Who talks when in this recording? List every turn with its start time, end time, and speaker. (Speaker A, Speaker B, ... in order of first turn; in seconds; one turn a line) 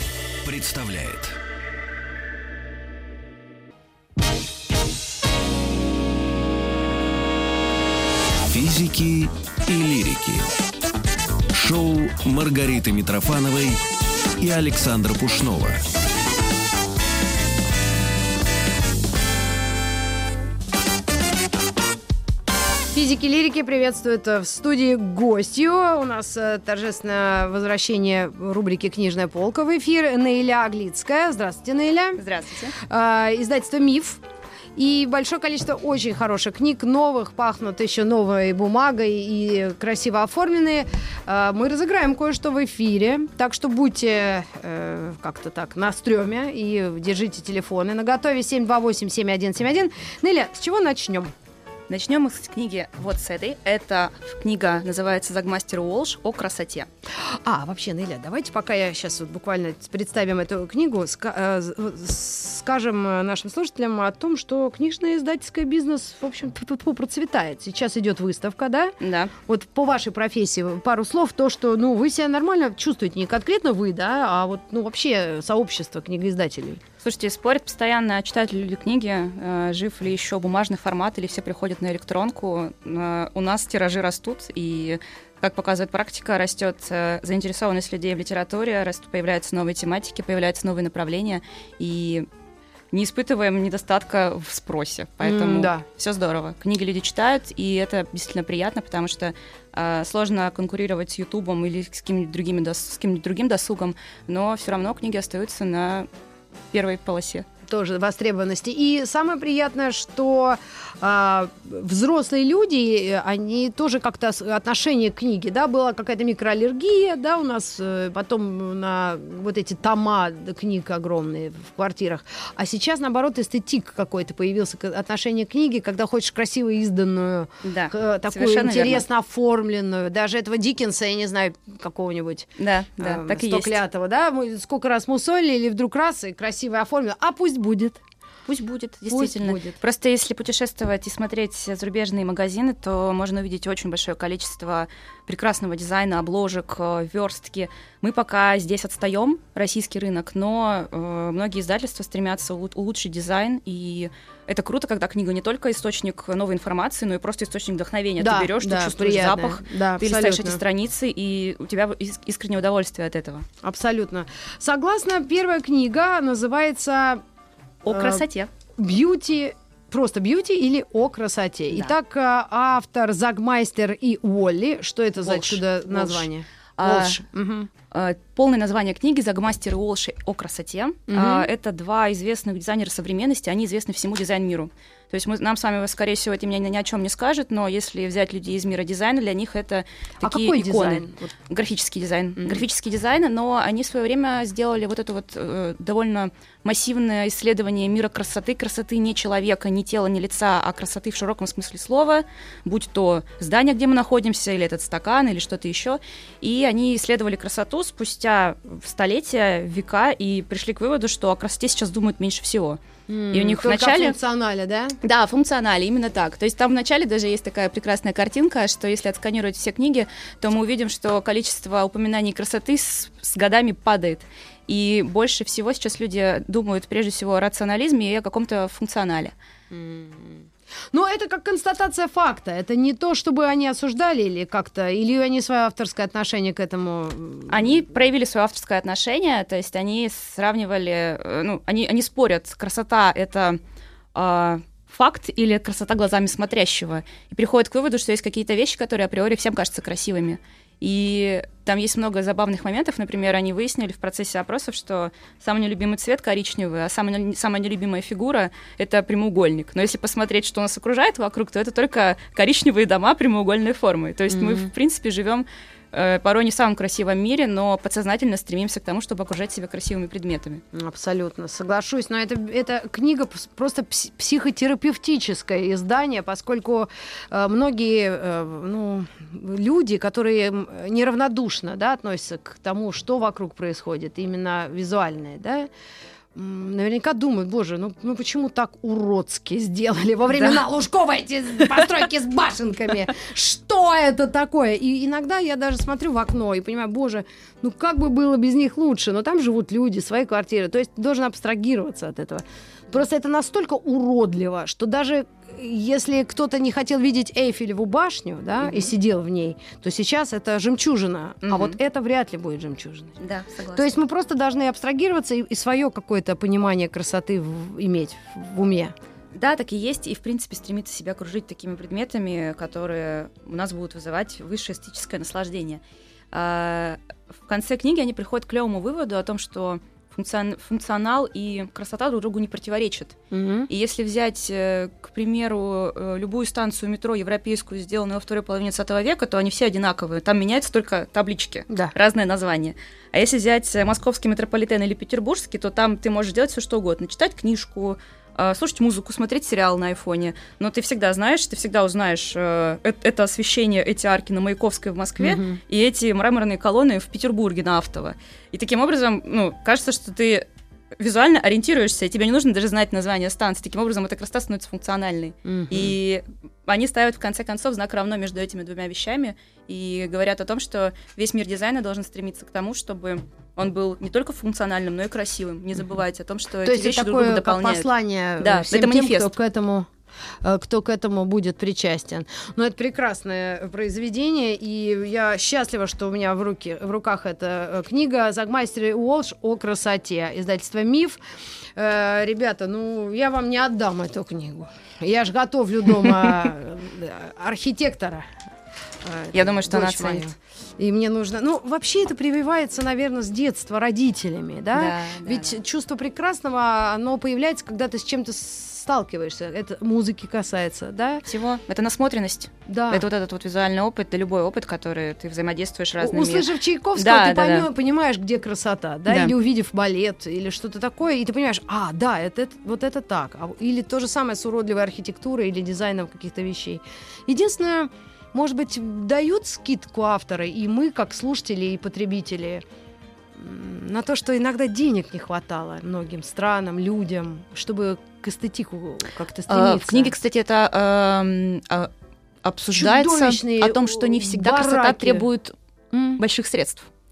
Speaker A: 0.4-1.4
Speaker A: 8.5-10.5
Speaker A: 11.5-13.8
Speaker A: 14.4-15.8
Speaker B: 22.9-32.2
Speaker C: 32.2-32.7
Speaker B: 32.7-34.2
Speaker B: 34.8-51.3
Speaker C: 51.9-56.9
Speaker B: 57.2-68.9
Speaker C: 69.0-69.3
Speaker B: 69.5-76.8
Speaker C: 77.0-92.3
Speaker C: 92.9-106.1
Speaker B: 95.2-95.8
Speaker C: 106.7-107.5
Speaker B: 107.7-138.0
Speaker C: 127.6-129.0
Speaker C: 132.6-133.8
Speaker C: 138.4-163.4
Speaker B: 139.1-139.7
Speaker B: 158.2-160.6
Speaker B: 163.6-167.2
Speaker C: 167.8-168.5
Speaker B: 167.9-168.2
Speaker B: 168.8-177.7
Speaker C: 175.2-177.2
Speaker C: 177.9-212.8
Speaker B: 181.1-181.5
Speaker B: 190.2-191.3
Speaker B: 213.1-215.0
Speaker C: 213.3-214.2
Speaker C: 215.0-229.3
Speaker B: 229.7-237.9
Speaker C: 237.5-243.6
Speaker C: 244.1-270.6
Speaker B: 264.3-264.7
Speaker B: 270.7-285.7
Speaker B: 286.3-313.2
Speaker C: 290.3-290.6
Speaker C: 308.6-308.9
Speaker C: 311.4-311.8
Speaker C: 313.2-314.0
Speaker B: 313.7-318.9
Speaker C: 319.3-333.1
Speaker B: 333.3-333.7
Speaker C: 333.7-360.4
Speaker B: 355.2-355.6
Speaker C: 361.0-377.9
Speaker B: 365.4-365.9
Speaker B: 376.6-379.9
Speaker C: 378.4-379.3
Speaker B: 380.4-391.2
Speaker B: 391.7-398.4
Speaker B: 399.0-411.2
Speaker C: 399.3-400.3
Speaker C: 404.7-405.6
Speaker C: 411.2-417.7
Speaker B: 412.7-413.1
Speaker B: 416.0-432.6
Speaker C: 419.1-419.3
Speaker B: 433.3-440.1
Speaker C: 439.5-441.9
Speaker C: 442.4-445.5
Speaker B: 442.7-445.2
Speaker B: 445.9-446.2
Speaker C: 446.1-446.9